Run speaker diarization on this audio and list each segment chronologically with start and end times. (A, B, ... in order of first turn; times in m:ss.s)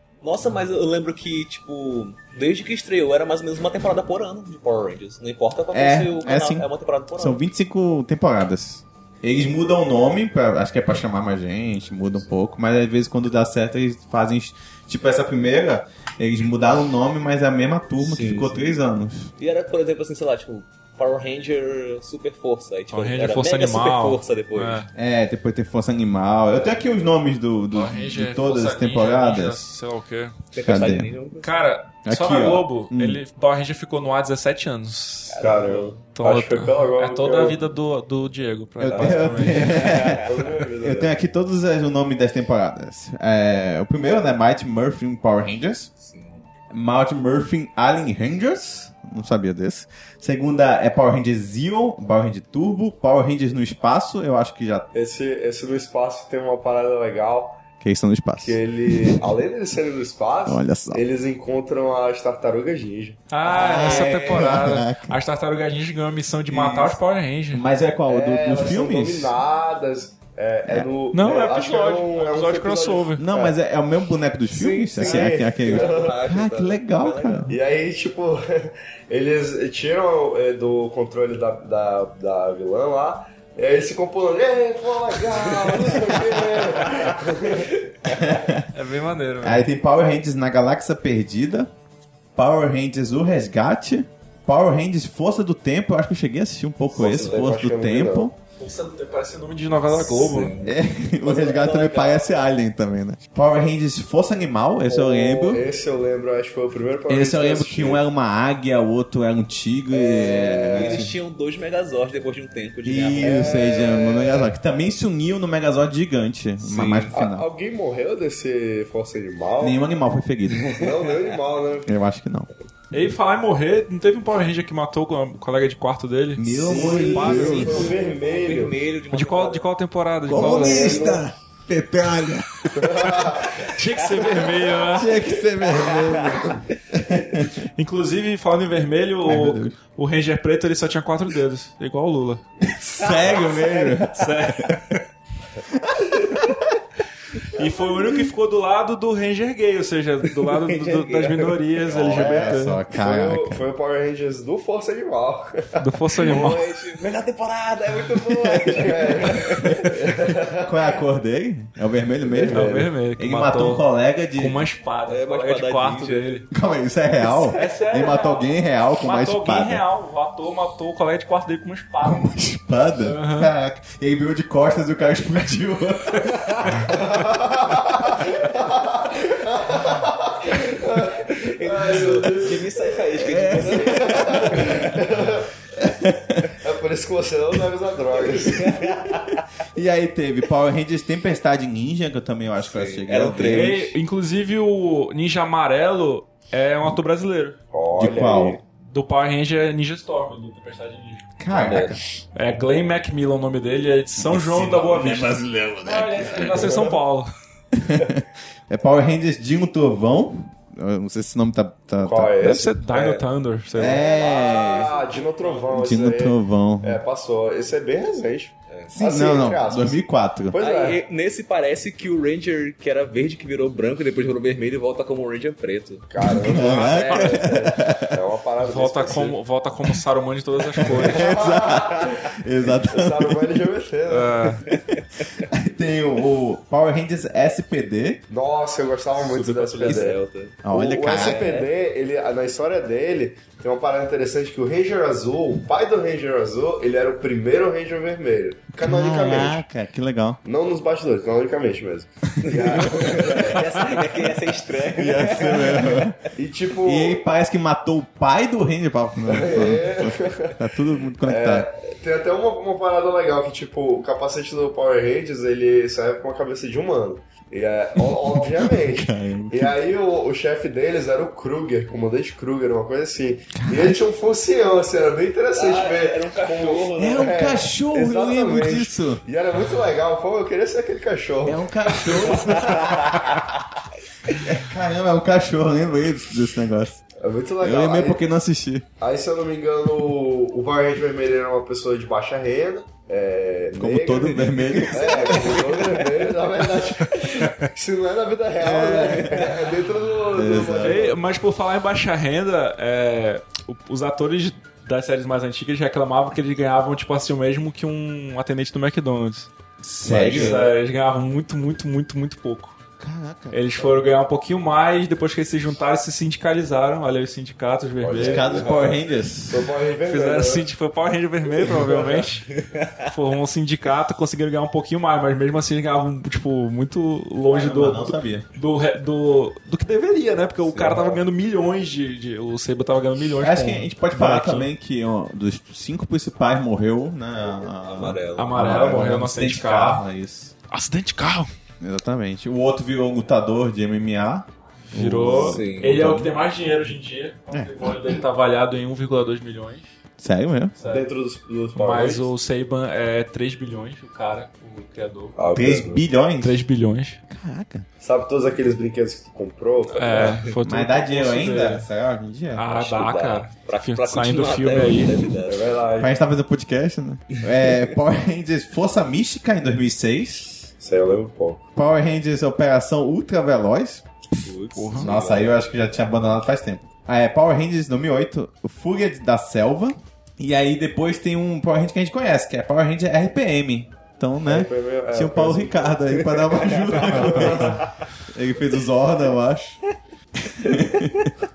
0:00.2-0:07.4 A
0:05.7-0:19.3 B
0:18.0-0:18.7 A
0:19.4-0:24.9 A
0:22.9-0:24.9 C
0:24.9-0:29.6 B
0:27.7-0:30.4 C
0:30.5-0:31.6 A
0:30.6-0:31.1 B
0:31.4-0:39.7 C
0:32.0-0:33.2 B
0:35.3-0:36.0 A
0:35.4-0:37.6 D
0:38.8-0:45.9 B
0:38.9-0:41.1 D
0:39.5-0:40.3 A
0:46.0-0:46.4 A
0:46.7-0:54.9 B
0:54.9-0:57.6 D
0:57.8-0:59.3 B
0:58.4-1:03.2 D
1:00.4-1:01.0 B
1:03.3-1:07.6 C
1:03.5-1:04.5 A
1:03.5-1:05.2 B
1:06.5-1:07.0 D
1:07.5-1:09.3 B
1:08.1-1:13.5 D
1:10.6-1:10.9 B
1:11.1-1:13.2 C
1:13.2-1:17.6 B
1:14.5-1:17.5 A
1:15.0-1:16.2 D
1:17.5-1:27.8 D
1:25.5-1:28.4 A
1:28.1-1:28.7 B
1:28.7-1:29.7 C
1:29.4-1:31.7 B
1:32.4-1:38.3 B
1:36.9-1:37.5 A
1:37.0-1:38.3 D
1:38.6-1:40.6 C
1:39.9-1:42.3 A
1:40.6-1:45.6 B
1:44.8-1:48.0 D
1:47.1-1:51.1 B
1:49.9-1:51.1 D
1:50.7-1:53.5 A
1:52.8-1:57.5 B
1:53.2-1:54.5 D
1:56.6-1:57.1 A
1:57.1-1:59.8 D
1:59.6-2:00.7 B
2:00.6-2:01.3 A
2:00.7-2:02.0 D
2:01.8-2:02.5 B
2:02.9-2:07.9 C
2:06.4-2:07.9 B
2:06.6-2:08.8 D
2:06.6-2:09.7 A
2:09.1-2:11.1 C
2:10.2-2:13.6 B
2:10.3-2:11.2 D
2:12.7-2:13.6 D
2:13.5-2:15.2 C
2:14.8-2:17.6 B
2:15.7-2:16.5 A
2:17.8-2:22.4 C
2:19.2-2:19.8 B
2:22.6-2:24.3 B
2:23.0-2:24.1 A
2:24.1-2:25.0 C
2:25.7-2:26.6 B
2:27.5-2:32.8 C
2:30.5-2:31.6 A
2:31.9-2:33.6 B
2:32.0-2:36.3 D
2:35.8-2:36.7 C
2:36.2-2:39.9 A
2:38.2-2:38.9 B
2:38.8-2:40.7 D
2:40.5-2:44.6 B
2:42.2-2:42.9 D
2:42.5-2:46.5 C
2:45.1-2:46.4 A
2:46.5-2:49.8 B
2:47.5-2:52.3 C
2:52.0-2:56.9 B
2:53.0-2:53.5 C
2:56.8-3:05.5 D
3:01.2-3:05.0 A
3:03.2-3:05.0 B
3:05.8-3:06.5 B
3:06.4-3:09.0 D
3:08.2-3:09.5 A
3:09.7-3:13.8 B
3:12.6-3:14.0 A
3:13.4-3:17.6 C
3:17.7-3:18.6 D
3:17.9-3:18.6 B
3:18.7-3:21.3 C
3:21.4-3:22.0 B
3:21.5-3:22.0 A
3:22.3-3:27.3 C
3:24.2-3:26.8 B
3:26.5-3:27.0 D
3:27.7-3:32.6 B
3:32.0-3:32.7 D
3:32.4-3:34.0 C
3:32.9-3:33.2 A
3:33.7-3:34.9 B
3:33.8-3:41.0 D
3:35.1-3:35.6 A
3:35.7-3:37.0 B
3:38.7-3:38.9 A
3:38.9-3:40.6 B
3:40.6-3:47.6 A
3:46.1-3:49.4 D
3:46.2-3:48.1 B
3:48.6-3:51.3 C
3:50.8-3:53.6 B
3:50.8-3:54.6 D
3:51.5-3:52.0 A
3:54.1-3:54.6 C
3:54.7-3:55.2 A
3:55.4-3:58.2 B
3:58.3-4:09.6 D
3:59.3-4:00.0 C
3:59.3-4:01.7 A
4:00.6-4:01.6 B
4:08.8-4:10.4 B
4:10.4-4:13.7 D
4:12.4-4:16.1 A
4:14.7-4:16.2 B
4:16.3-4:17.2 D
4:16.8-4:21.7 B
4:19.2-4:20.6 D
4:21.2-4:42.9 D
4:28.0-4:29.8 B
4:33.5-4:34.0 B
4:35.5-4:37.4 A
4:37.0-4:39.2 B
4:41.4-4:43.5 B
4:42.4-4:43.4 A
4:44.3-4:47.0 B
4:47.2-4:48.2 D
4:47.6-4:48.9 B
4:49.0-5:01.2 D
4:53.7-4:55.7 B
4:54.9-4:56.2 A
4:58.6-4:59.5 B
5:00.3-5:01.1 B
5:00.8-5:09.5 C
5:09.8-5:10.7 B
5:10.0-5:12.8 C
5:10.3-5:10.6 D
5:13.0-5:13.6 B
5:13.5-5:18.5 C
5:18.0-5:20.6 D
5:18.2-5:19.7 B
5:18.4-5:18.9 A
5:20.0-5:22.5 C
5:21.6-5:22.2 D
5:22.5-5:23.1 A
5:23.0-5:34.7 C
5:27.5-5:28.5 B
5:30.6-5:31.2 A
5:33.4-5:40.5 B
5:37.6-5:38.8 A
5:38.4-5:40.0 C
5:40.7-5:41.5 C
5:41.8-5:46.3 B
5:44.9-5:49.8 C
5:45.3-5:46.0 A
5:47.5-5:48.0 B
5:50.2-5:50.8 B
5:50.8-5:51.1 C
5:50.8-5:52.3 D
5:51.8-5:55.4 C
5:55.4-5:56.0 D
5:55.5-5:56.6 B
5:56.4-5:57.2 C
5:57.3-5:57.8 B
5:58.0-6:00.4 D
5:59.9-6:01.9 C
6:00.1-6:00.4 A
6:00.6-6:02.6 B
6:02.5-6:05.3 C
6:02.7-6:05.9 A
6:05.4-6:06.2 D
6:06.0-6:10.7 B
6:10.8-6:11.6 D
6:11.8-6:14.0 B
6:14.4-6:15.5 A
6:14.8-6:15.1 C
6:14.9-6:29.8 B
6:24.4-6:27.9 D
6:27.3-6:27.7 A
6:30.4-6:31.3 B